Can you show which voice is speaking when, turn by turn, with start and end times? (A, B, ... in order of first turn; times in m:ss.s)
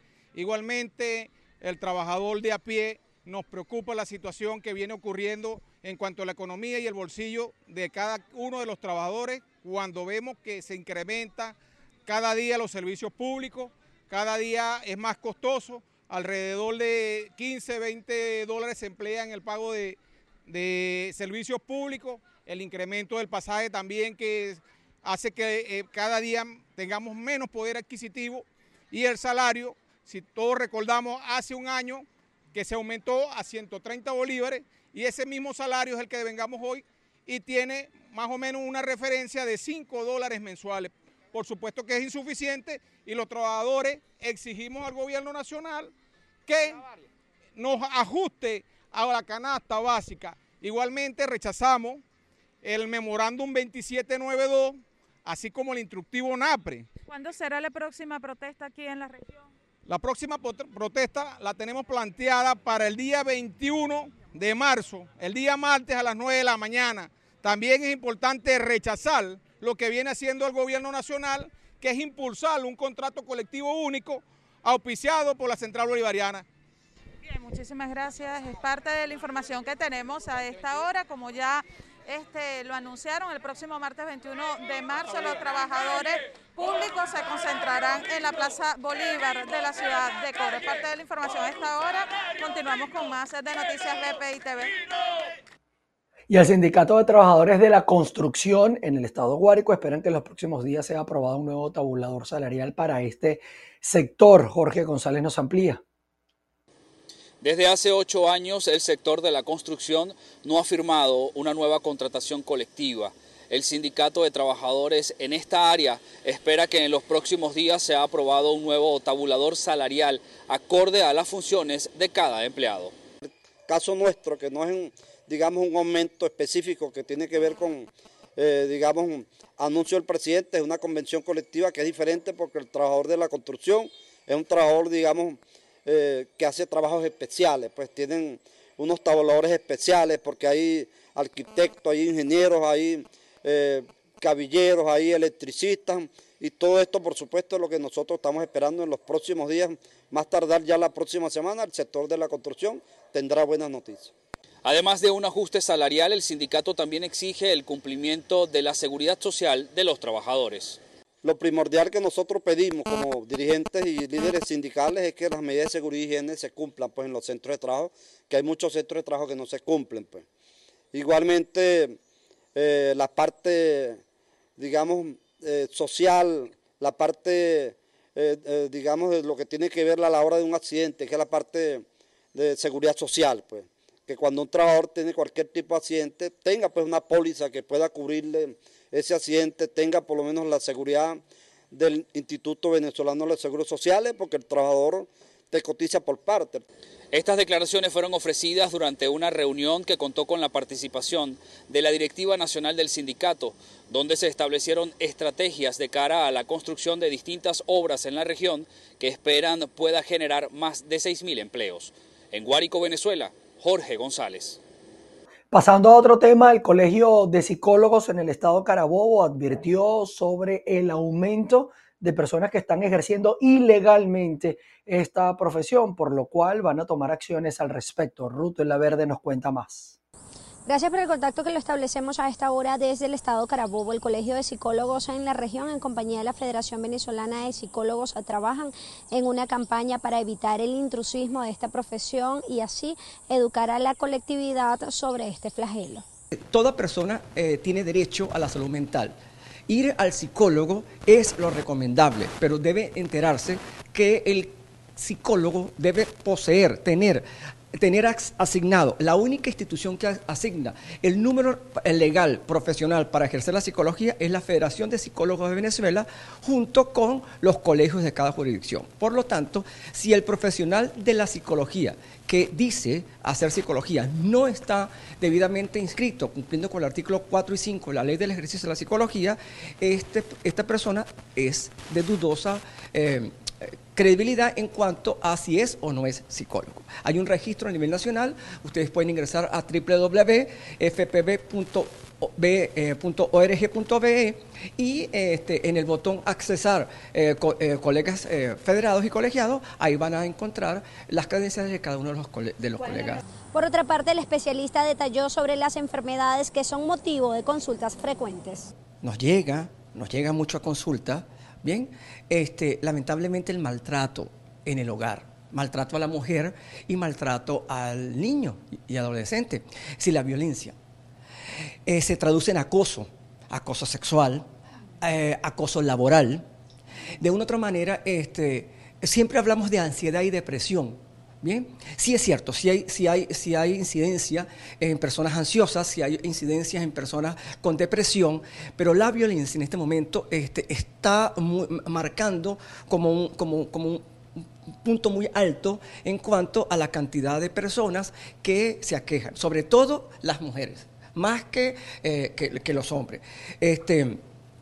0:00.3-0:45.9 A
0:46.5-0:46.8 A
0:47.6-0:52.0 A
0:52.6-0:56.9 A
0:57.1-0:59.5 B
0:59.9-1:16.5 A
1:17.2-1:34.7 B
1:36.3-1:45.8 C
1:47.4-2:02.9 D
2:03.7-2:34.1 E
2:34.6-2:40.8 D
2:41.2-2:50.2 E
2:50.9-2:52.0 E
2:52.6-2:54.0 E
2:54.6-3:16.6 E
3:17.1-3:34.6 D
3:35.5-3:50.0 C
3:50.7-4:06.0 F
4:06.5-4:09.2 G
4:09.7-5:03.2 G
5:03.5-5:08.7 F
5:09.0-5:20.8 G
5:21.8-5:24.5 G
5:25.0-5:26.5 G
5:27.2-5:54.2 G